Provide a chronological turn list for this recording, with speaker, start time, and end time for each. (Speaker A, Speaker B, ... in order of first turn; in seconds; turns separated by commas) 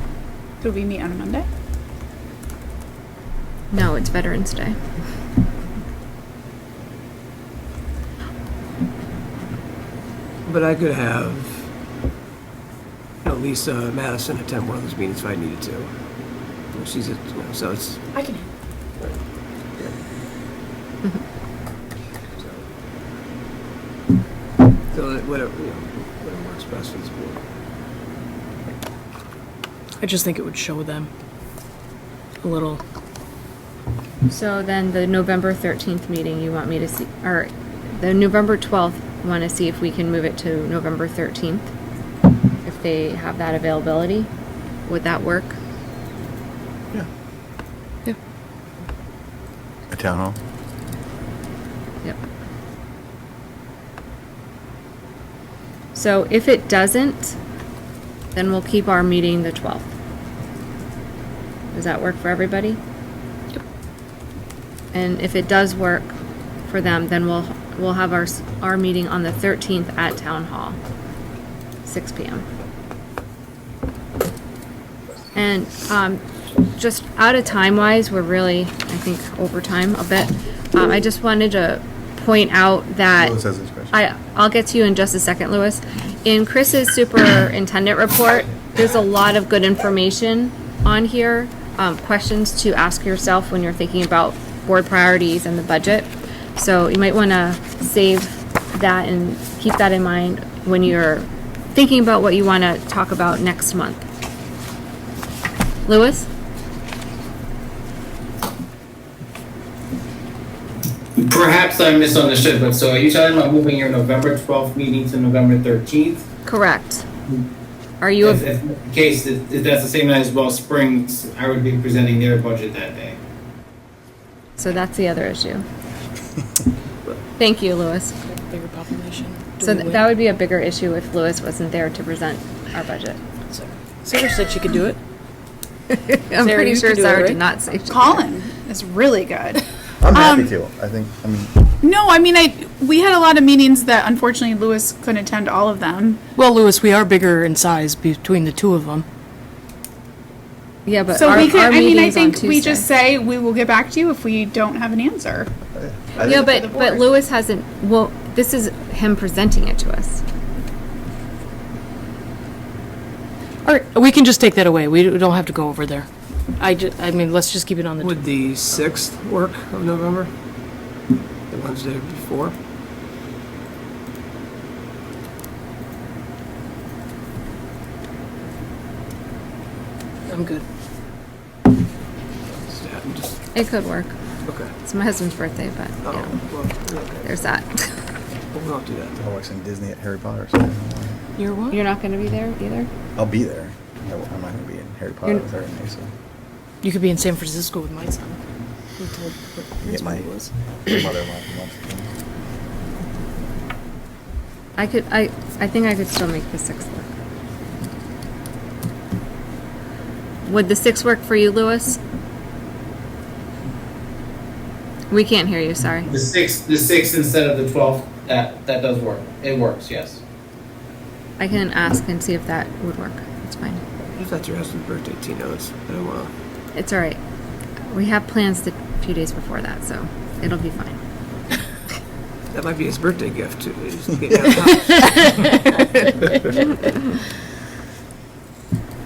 Speaker A: 0.6-1.5, Speaker B: 3.7-4.8, Speaker C: 10.5-11.7, Speaker C: 13.2-15.9, Speaker C: 16.7-18.0, Speaker A: 18.1-18.5, Speaker C: 22.4-22.6, Speaker C: 24.9-27.4, Speaker D: 30.0-31.1, Speaker D: 32.4-32.8, Speaker B: 34.3-41.7, Speaker B: 42.6-44.3, Speaker B: 44.9-45.6, Speaker E: 49.9-50.4, Speaker B: 55.9-57.4, Speaker B: 58.4-59.9, Speaker B: 61.7-62.8, Speaker B: 64.9-66.1, Speaker B: 66.7-70.8, Speaker B: 71.8-72.5, Speaker B: 75.3-83.3, Speaker E: 83.2-83.9, Speaker B: 83.9-104.0, Speaker B: 105.9-106.3, Speaker F: 111.2-116.3, Speaker B: 116.5-117.1, Speaker B: 118.0-118.4, Speaker F: 118.2-123.2, Speaker B: 124.6-125.7, Speaker B: 127.4-128.2, Speaker D: 128.2-130.1, Speaker B: 129.6-133.2, Speaker D: 133.5-135.0, Speaker B: 135.9-138.3, Speaker D: 136.4-137.4, Speaker A: 137.8-140.5, Speaker E: 140.0-141.6, Speaker A: 141.8-146.2, Speaker D: 146.4-149.1, Speaker B: 150.9-152.9, Speaker A: 151.1-155.5, Speaker E: 155.7-156.5, Speaker A: 156.2-157.1, Speaker B: 156.2-160.2, Speaker D: 163.6-168.2, Speaker C: 168.0-170.3, Speaker C: 171.5-172.6, Speaker D: 180.3-180.6, Speaker C: 182.5-183.4, Speaker B: 183.6-184.1, Speaker C: 184.4-184.7, Speaker B: 184.8-186.4, Speaker C: 186.0-187.5, Speaker B: 187.2-187.9, Speaker C: 188.5-189.2, Speaker E: 189.2-191.2, Speaker D: 191.4-191.8, Speaker B: 191.7-192.9, Speaker E: 193.2-196.1, Speaker D: 196.8-198.4, Speaker D: 199.0-200.5, Speaker E: 199.8-200.3, Speaker E: 200.8-202.1, Speaker B: 204.8-207.1, Speaker B: 210.4-212.0, Speaker B: 215.1-216.1, Speaker F: 216.1-220.2, Speaker B: 221.4-223.8, Speaker C: 224.2-226.3, Speaker B: 226.7-227.2, Speaker B: 227.9-231.0, Speaker C: 232.5-235.3